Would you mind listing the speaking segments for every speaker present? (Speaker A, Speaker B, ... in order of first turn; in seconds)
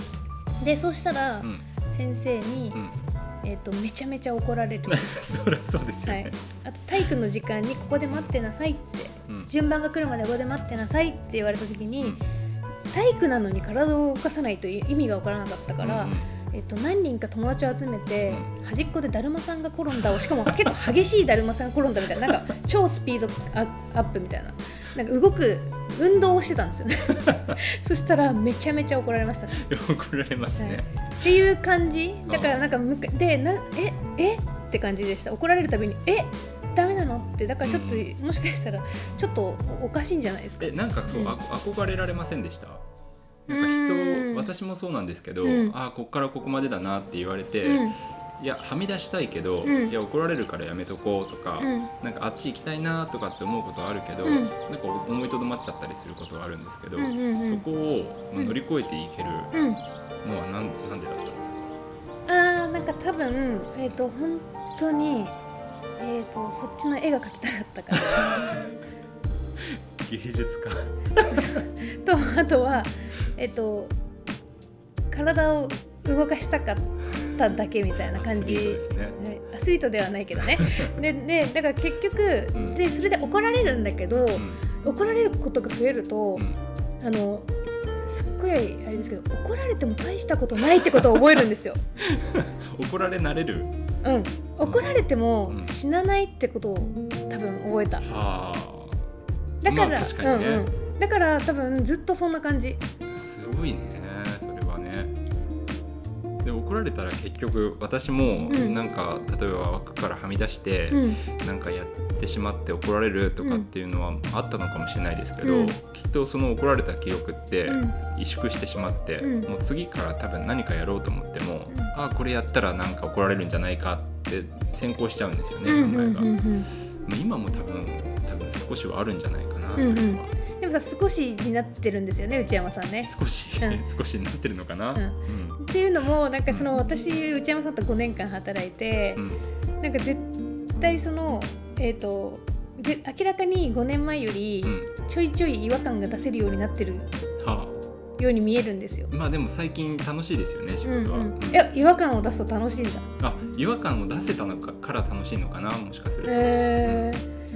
Speaker A: 0.6-2.8, 3.4-5.1, 6.0-12.2, 12.9-29.6, 30.6-41.4, 43.5-44.5, 45.4-45.7, 47.6-48.0, 49.6-49.9, 51.6-51.9, 54.2-54.5, 57.0-57.6, 59.5-59.8, 62.3-65.4, 66.0-68.4, 71.3-73.9, 75.1-86.5, 87.0-87.5, 88.0-91.8, 94.0-98.0, 99.6-102.8, 108.5-108.8, 110.9-111.2, 113.4-113.7, 115.4-115.8, 117.7-118.0, 119.2-119.5, 125.6-126.7, 129.8-133.8, 134.9-139.2, 139.8-147.1, 148.2-149.1, 150.8-153.1, 156.2-157.2
Speaker B: 4.9-6.4, 8.1-8.3, 15.8-16.2, 20.2-20.7, 27.3-27.6, 29.5-30.9, 32.3-32.5, 37.6-38.1, 40.6-42.8, 43.5-59.5, 60.2-61.8, 68.2-68.7, 69.6-71.6, 78.1-79.2, 80.5-80.9, 82.5-82.8, 84.3-84.6, 92.0-93.7, 94.6-95.7, 98.0-99.0, 99.6-100.7, 103.1-105.1, 106.4-126.3, 127.0-130.3, 133.1-135.6, 139.2-139.4, 147.4-147.8, 149.1-151.7, 153.2-157.1